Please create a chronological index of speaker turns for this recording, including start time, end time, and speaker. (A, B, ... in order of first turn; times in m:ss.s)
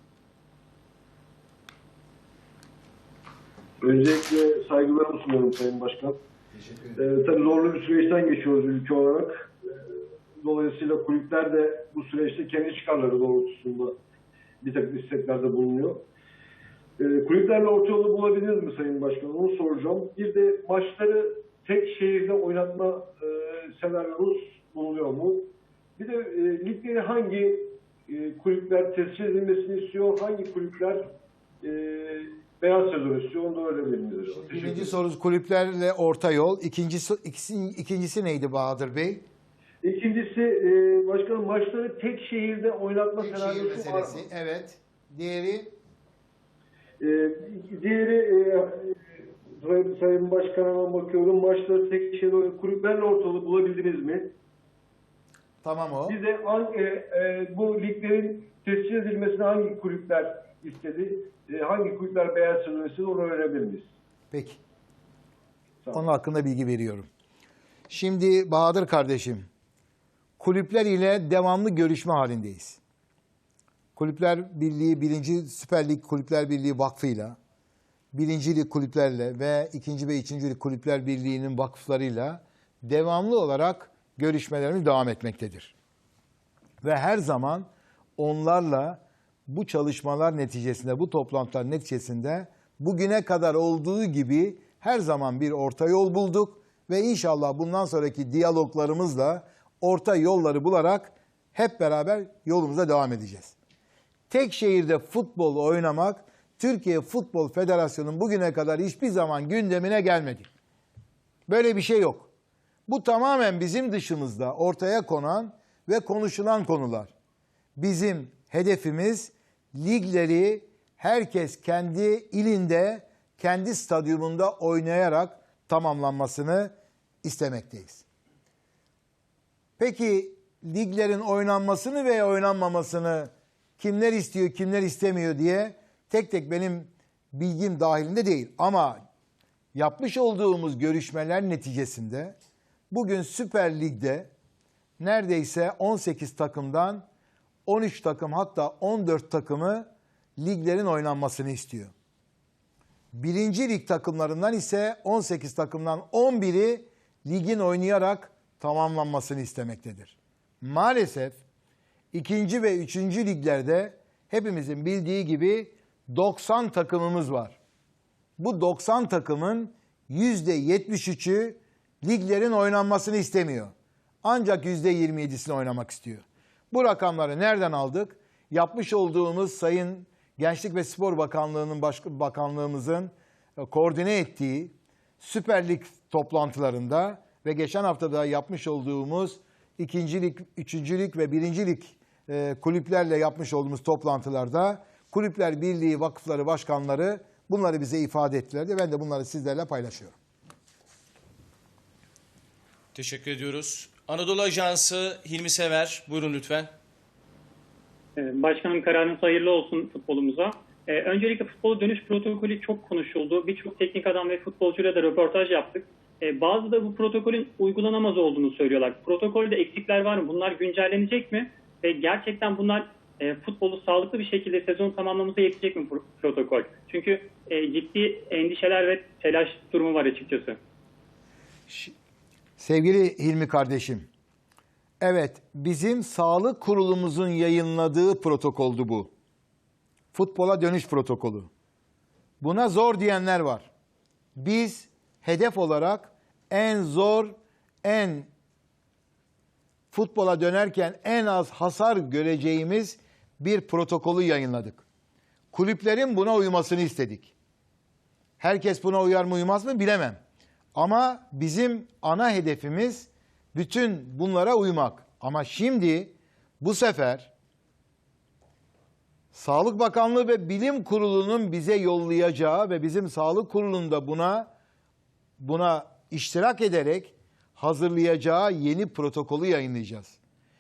0:03.8-0:06.2 A
0:06.5-0:07.0 B
0:07.0-0:09.5 A
0:10.4-0:14.0 A
0:14.6-0:16.0 A
0:17.0-0:31.0 A
0:31.6-0:35.0 A
0:34.4-0:39.2 B
0:39.8-0:44.2 A
0:43.2-0:45.7 B
0:47.0-0:54.3 A
0:55.6-0:56.2 B
0:56.1-1:03.9 A
1:04.3-1:04.6 B
1:05.9-1:07.1 B
1:07.9-1:09.5 B
1:10.4-1:12.8 B
1:14.0-1:17.4 B
1:18.1-1:25.7 B
1:26.8-1:43.6 B
1:44.3-1:50.5 B
1:51.5-1:52.3 B
1:52.9-1:57.1 B
1:57.8-2:08.0 B
2:09.8-2:19.0 B
2:19.8-2:22.4 B
2:22.9-2:24.3 B
2:25.0-2:27.0 B
2:27.7-2:31.9 B
2:33.1-2:41.4 B
2:42.1-2:47.6 B
2:48.4-3:20.2 B
3:22.9-3:26.7 C
3:28.2-3:50.6 D
3:51.7-3:51.9 B
3:52.6-3:54.1 B
3:55.0-3:59.1 B
4:00.1-4:01.5 B
4:02.4-4:03.7 B
4:04.4-4:08.3 B
4:09.9-4:14.8 B
4:15.5-4:17.3 B
4:18.4-4:20.2 B
4:20.8-4:27.3 B
4:29.3-4:34.5 B
4:35.4-4:40.2 B